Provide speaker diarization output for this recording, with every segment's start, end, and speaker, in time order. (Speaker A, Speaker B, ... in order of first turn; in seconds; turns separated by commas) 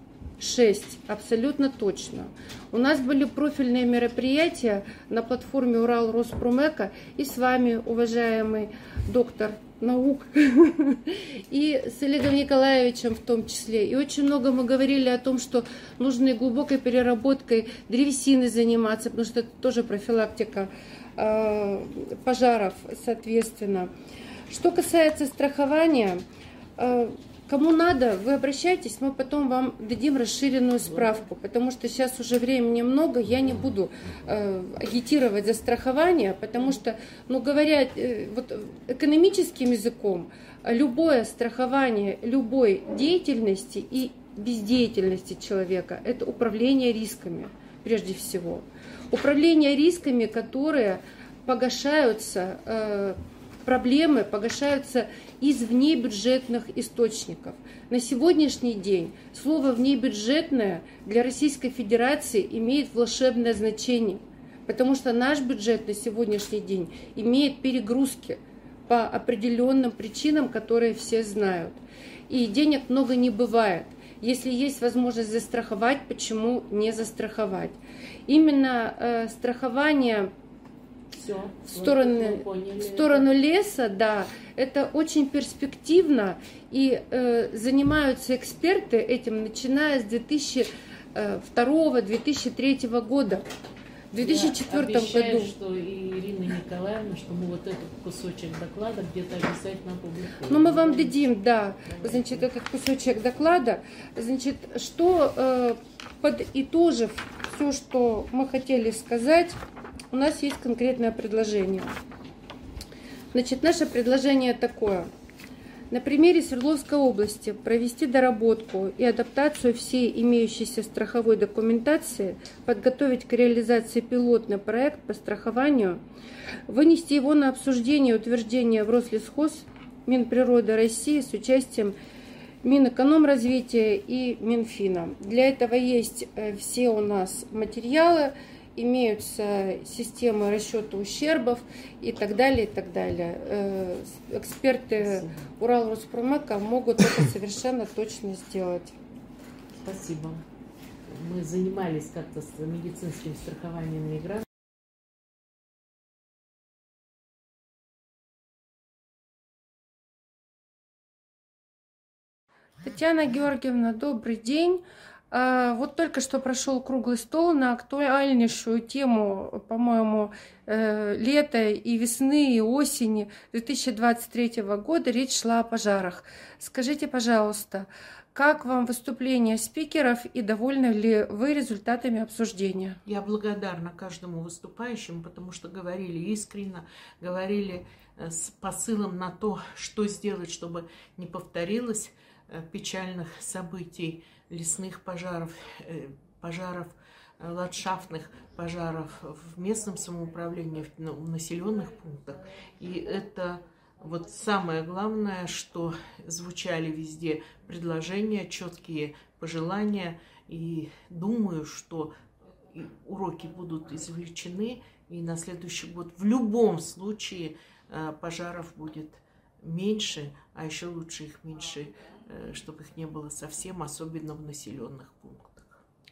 Speaker A: 0.4-23.9, Speaker A: 24.5-26.2, Speaker A: 26.8-80.3, Speaker B: 30.9-31.2, Speaker B: 81.1-83.2, Speaker A: 81.6-93.5, Speaker A: 94.1-95.5, Speaker B: 94.2-101.2, Speaker A: 100.5-109.6, Speaker B: 101.8-102.5, Speaker A: 110.1-111.9, Speaker A: 113.3-115.1, Speaker A: 115.9-126.0, Speaker A: 126.7-132.0, Speaker A: 132.6-149.0, Speaker B: 145.0-145.5, Speaker B: 149.8-150.4, Speaker B: 151.1-154.4, Speaker A: 162.8-183.0, Speaker B: 183.1-212.1, Speaker B: 212.7-225.8